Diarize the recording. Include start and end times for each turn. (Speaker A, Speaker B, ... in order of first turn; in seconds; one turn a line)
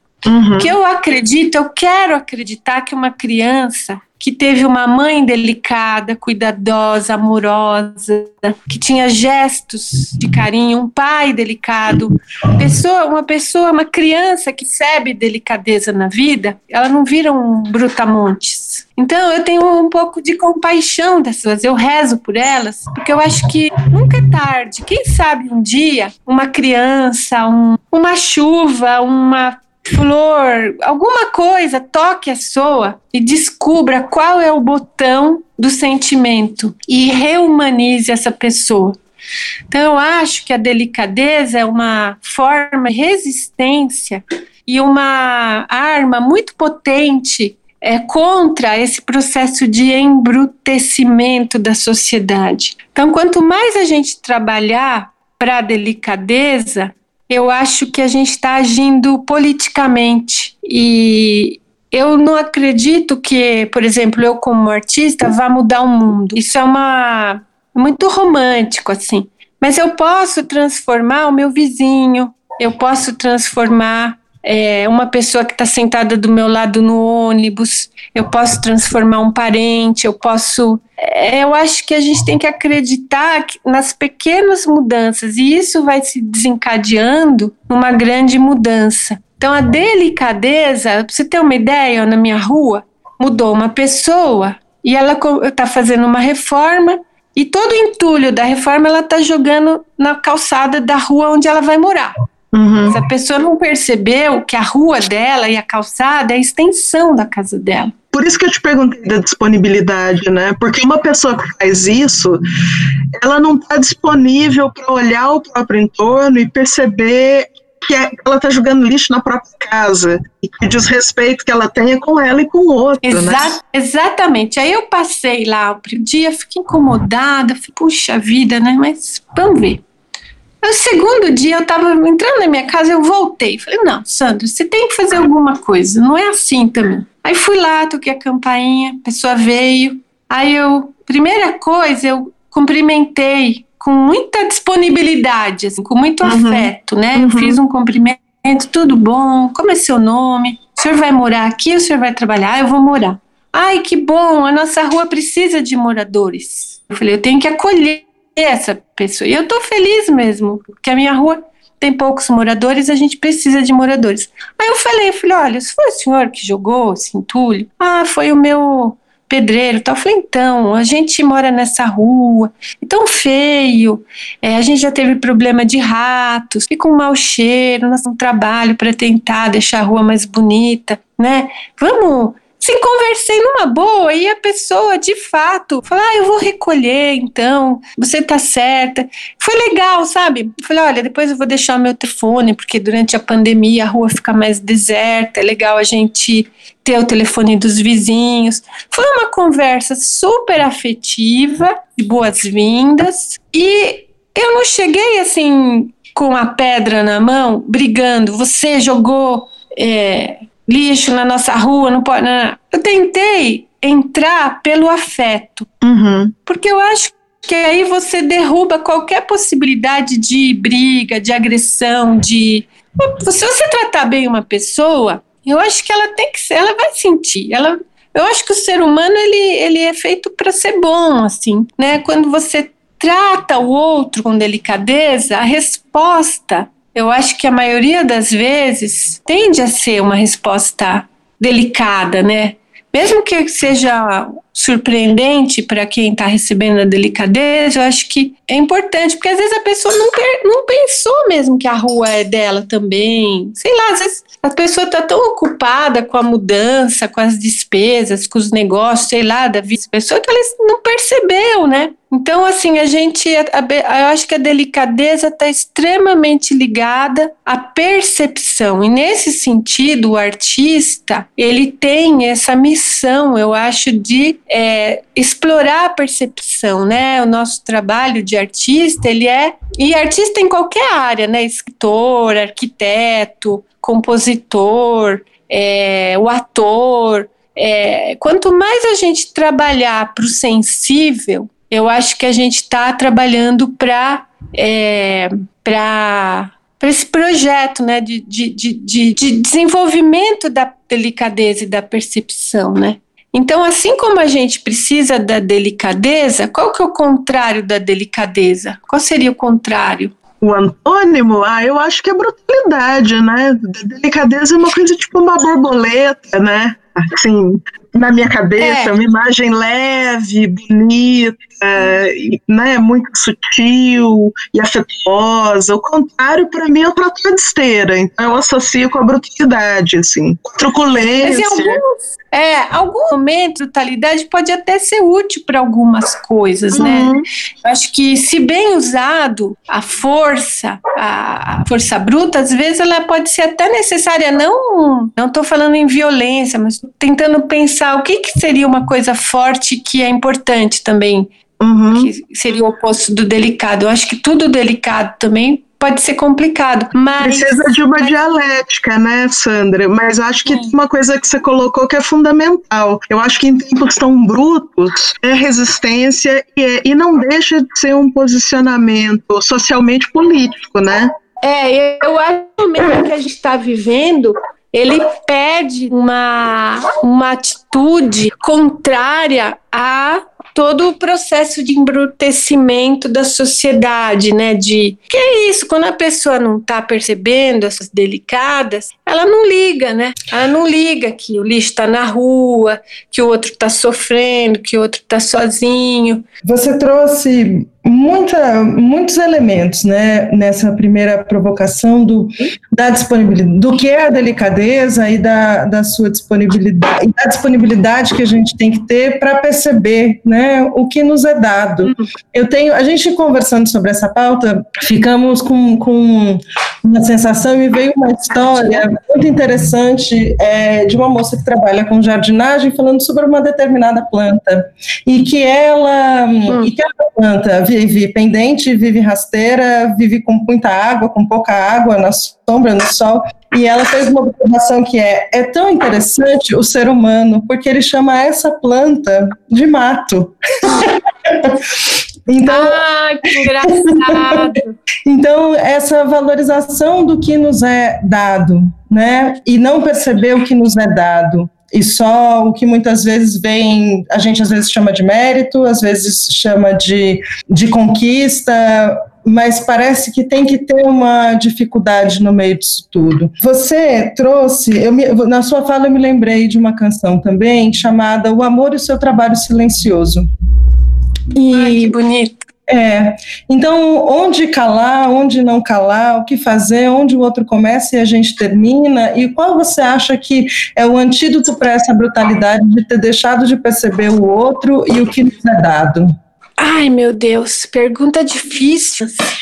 Speaker A: 0.2-0.7
Speaker B: 0.6-39.0
Speaker B: 39.7-102.1
Speaker A: 102.5-103.0
Speaker B: 102.9-107.9
Speaker A: 108.1-112.4
Speaker A: 113.2-123.6
Speaker B: 123.0-129.8
Speaker B: 130.6-215.7
Speaker A: 146.2-147.6
Speaker A: 215.8-216.3
Speaker B: 216.4-310.1
Speaker A: 310.4-331.8
Speaker B: 318.6-318.9
Speaker B: 331.2-337.1
Speaker A: 336.7-337.2
Speaker B: 337.6-351.3
Speaker A: 351.6-352.1
Speaker B: 351.9-358.1
Speaker A: 357.2-371.1
Speaker B: 360.5-360.7
Speaker B: 371.4-396.2
Speaker C: 396.4-441.7
Speaker C: 442.3-442.8
Speaker B: 442.4-444.7
Speaker C: 443.6-444.4
Speaker C: 445.1-470.2
Speaker C: 471.3-471.9
Speaker B: 471.5-472.4
Speaker C: 472.7-486.1
Speaker B: 486.6-489.3